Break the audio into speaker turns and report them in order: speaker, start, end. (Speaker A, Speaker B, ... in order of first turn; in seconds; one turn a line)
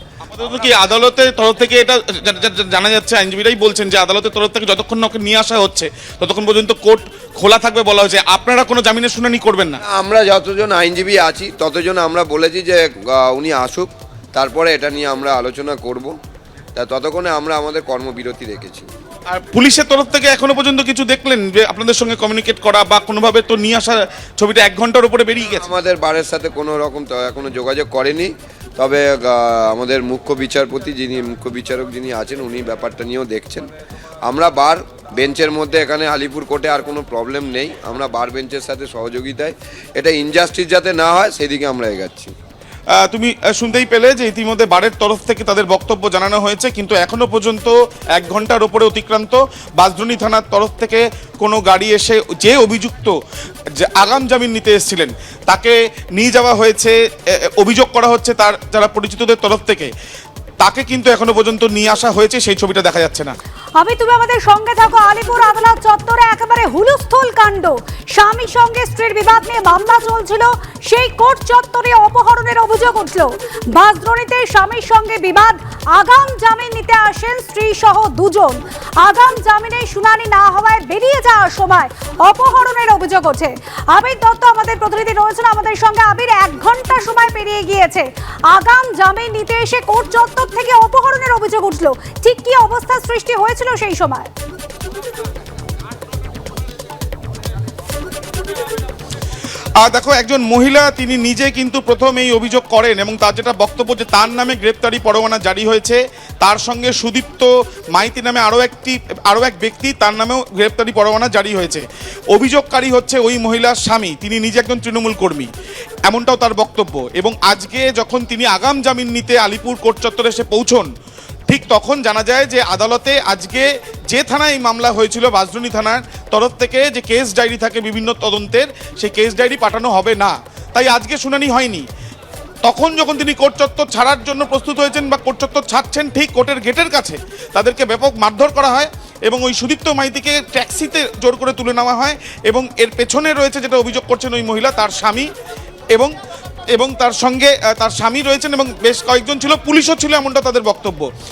Speaker A: 0.2-9.8
Speaker B: 9.9-16.1
Speaker B: 16.8-18.9
Speaker A: 19.3-25.7
Speaker B: 25.5-33.7
Speaker B: 34.2-42.3
Speaker A: 43.0-53.1
Speaker A: 53.7-57.0
Speaker A: 57.6-59.9
Speaker A: 60.6-63.3
Speaker C: 63.8-94.3
Speaker A: 99.8-115.5
Speaker A: 116.1-120.9
Speaker A: 121.5-131.8
Speaker A: 132.6-145.3
Speaker A: 146.7-151.1